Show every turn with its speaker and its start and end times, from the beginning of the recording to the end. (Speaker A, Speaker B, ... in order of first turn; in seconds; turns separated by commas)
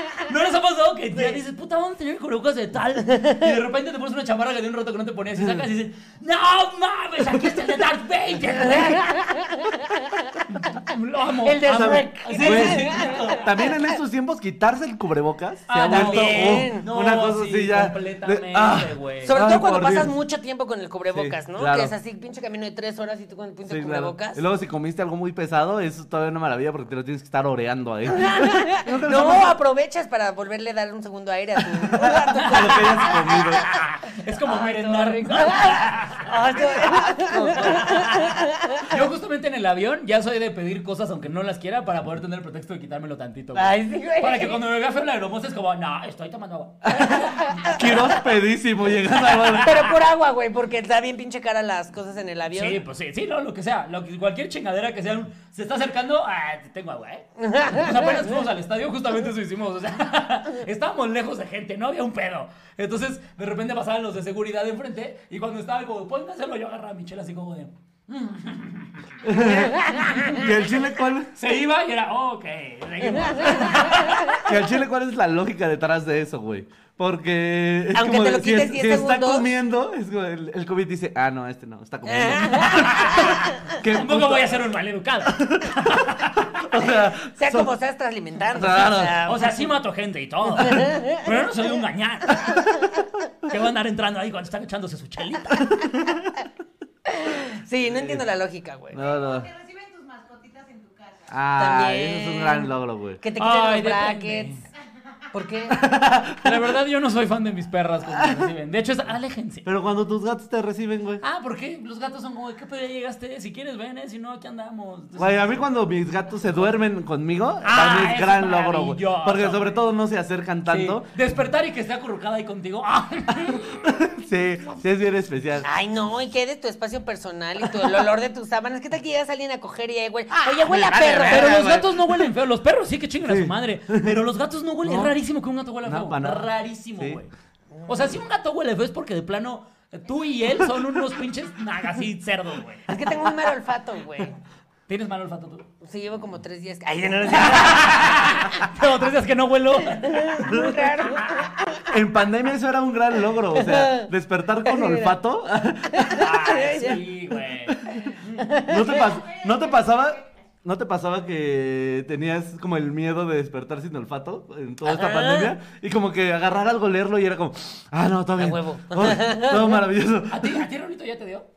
Speaker A: 0.2-9.2, Speaker B: 8.6-10.4, Speaker A: 10.5-13.5, Speaker B: 11.4-13.5, Speaker C: 11.7-20.1, Speaker A: 15.7-19.4, Speaker B: 15.8-16.8, Speaker B: 19.2-24.4, Speaker C: 21.1-21.9, Speaker C: 23.7-29.6, Speaker B: 28.1-33.6, Speaker C: 31.7-33.6, Speaker A: 32.4-47.7, Speaker B: 34.4-38.9, Speaker C: 37.3-37.9, Speaker B: 43.5-44.6, Speaker C: 46.8-49.9, Speaker B: 47.3-47.8, Speaker B: 49.5-52.8, Speaker A: 52.5-69.2, Speaker B: 57.4-58.0, Speaker C: 69.2-71.3, Speaker B: 69.3-70.4, Speaker A: 71.3-74.4, Speaker C: 74.4-84.6, Speaker B: 77.9-79.5, Speaker B: 82.0-83.5, Speaker A: 82.6-86.5, Speaker C: 85.4-85.9, Speaker C: 86.5-87.7, Speaker B: 87.2-89.7, Speaker C: 88.5-89.2, Speaker A: 89.2-92.9, Speaker B: 90.7-91.2, Speaker A: 93.4-95.8, Speaker C: 95.6-96.3, Speaker B: 97.1-99.0, Speaker C: 97.8-98.2, Speaker C: 98.9-99.5, Speaker D: 99.0-101.4, Speaker C: 101.3-103.2, Speaker B: 101.5-104.6, Speaker A: 103.4-104.6, Speaker B: 105.3-105.8, Speaker C: 105.7-106.7, Speaker A: 106.4-109.7, Speaker C: 108.1-108.5, Speaker C: 109.6-111.2, Speaker A: 111.2-115.7, Speaker C: 115.2-121.2, Speaker A: 117.6-119.8, Speaker A: 120.7-123.9, Speaker C: 123.5-125.7, Speaker B: 125.6-131.6, Speaker C: 130.3-132.3, Speaker A: 131.2-137.3, Speaker C: 133.2-134.2, Speaker C: 134.8-135.1, Speaker C: 135.8-137.2, Speaker B: 137.8-138.2, Speaker A: 137.9-142.9, Speaker B: 142.9-144.4, Speaker A: 144.9-145.7, Speaker B: 145.8-148.6, Speaker A: 147.3-150.5, Speaker B: 149.9-151.9, Speaker C: 150.4-150.8, Speaker C: 151.9-156.3, Speaker B: 153.5-154.1, Speaker B: 154.6-155.2, Speaker B: 156.0-157.0, Speaker A: 156.1-158.4, Speaker C: 157.7-158.0, Speaker B: 158.4-159.1, Speaker C: 158.7-170.6, Speaker D: 159.0-160.3, Speaker B: 164.8-165.6, Speaker B: 168.4-169.8, Speaker A: 170.3-171.5